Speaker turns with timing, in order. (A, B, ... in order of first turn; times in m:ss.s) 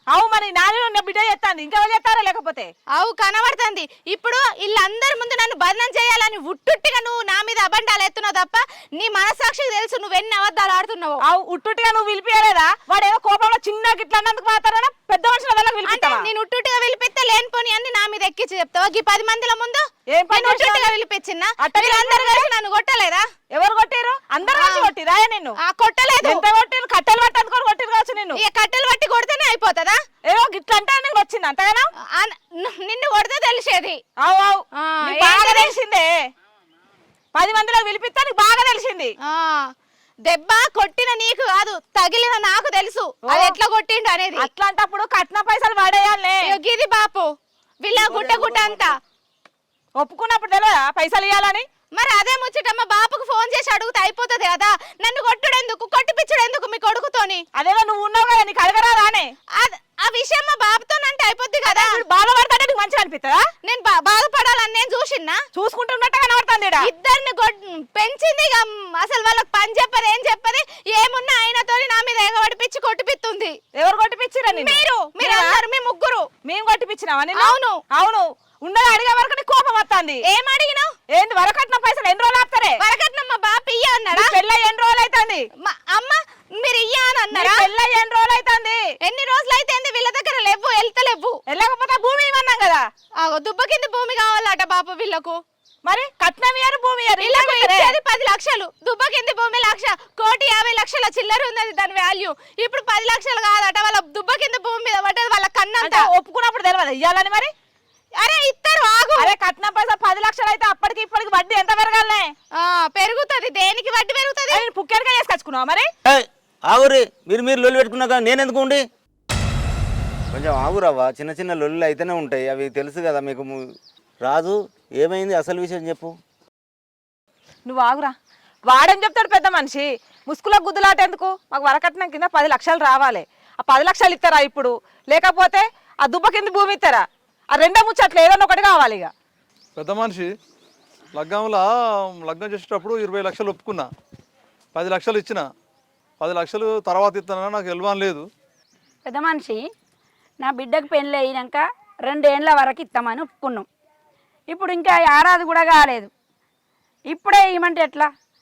0:00.1-0:02.7 A
0:03.0-0:11.2 B
0:11.2-0:16.2 A
0:15.8-0:23.2 B
0:20.1-0:20.9 A
0:21.6-0:22.5 A
0:23.5-0:25.5 A
0:24.5-0:24.9 B
0:25.6-0:26.4 B
0:26.2-0:28.4 A
0:28.3-0:30.0 B
0:30.3-0:31.9 A
0:32.2-0:34.0 B
0:34.2-0:36.1 A
0:34.8-0:35.7 B
0:37.3-0:39.1 A
0:39.2-0:39.6 B
0:40.3-0:44.5 B
0:43.3-0:43.6 A
0:44.4-0:46.5 A
0:46.4-0:47.3 B
0:47.8-0:48.9 B
0:50.0-0:51.6 A
0:52.0-0:57.4 B
0:57.6-0:59.3 A
0:59.6-1:02.0 B
1:01.6-1:03.4 A
1:03.6-1:05.4 B
1:05.5-1:06.9 A
1:06.8-1:13.6 B
1:13.8-1:15.6 A
1:14.5-1:16.3 B
1:16.4-1:20.2 A
1:17.4-1:17.8 B
1:20.2-1:20.9 B
1:21.1-1:22.8 A
1:22.8-1:24.4 B
1:24.1-1:25.4 A
1:25.6-1:27.7 B
1:27.3-1:28.8 A
1:29.0-1:31.4 B
1:31.5-1:32.8 A
1:33.2-1:35.4 B
1:35.9-1:37.9 A
1:37.2-1:46.1 B
1:45.8-1:47.5 A
1:48.2-1:49.3 B
1:49.2-1:52.3 A
1:52.6-1:54.7 B
1:54.5-1:55.9 A
1:56.1-1:58.8 C
2:00.3-2:03.5 C
2:04.2-2:06.1 C
2:07.7-2:08.1 A
2:08.7-2:19.1 A
2:19.8-2:20.3 D
2:21.1-2:23.9 D
2:24.7-2:25.5 D
2:26.2-2:28.3 D
2:29.0-2:29.6 E
2:30.4-2:33.7 E
2:34.5-2:36.1 E
2:37.1-2:38.1 E